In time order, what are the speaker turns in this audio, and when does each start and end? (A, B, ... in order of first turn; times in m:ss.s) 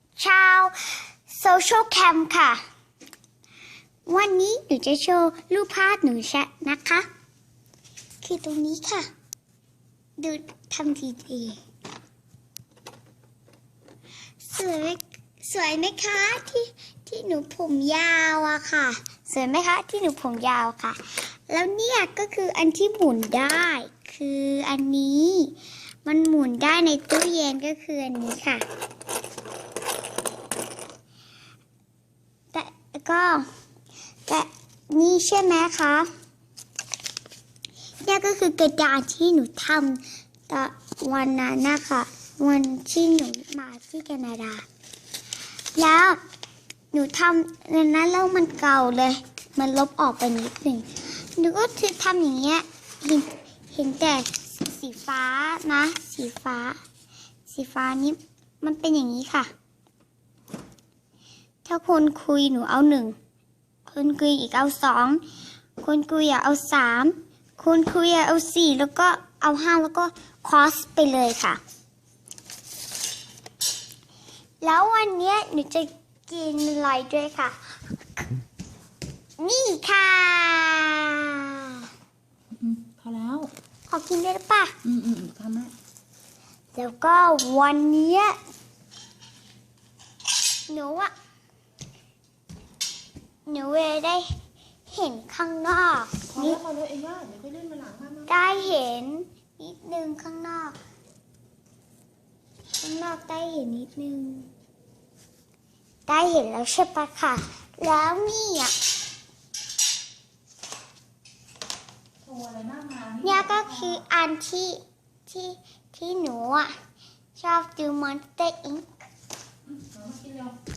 0:00.2-0:02.6 A
0:04.0-0:07.0 A
0:08.2-0:09.1 A
0:10.2-0:11.6 A
0:14.4-0:28.6 A
0:32.5-0:33.4 A
0:34.3-0:36.1 A
0:38.0-0:44.6 A
0:45.7-0:46.2 A
0:46.9-0:56.8 A
0:57.5-0:59.5 A
1:01.6-1:03.2 A
1:03.8-1:05.2 A
1:05.8-1:11.6 A
1:14.6-1:17.6 A
1:19.4-1:21.9 A
1:22.6-1:23.5 B
1:23.9-1:24.7 A
1:24.8-1:25.7 B
1:26.7-1:28.4 A
1:30.7-1:31.1 A
1:33.4-1:34.3 A
1:34.9-1:36.6 A
1:36.3-1:38.4 B
1:38.2-1:40.8 A
1:42.8-1:44.5 A
1:46.1-1:48.7 A
1:52.2-1:54.0 B
1:53.2-1:56.7 A
1:57.4-1:59.1 A
1:59.7-2:00.6 B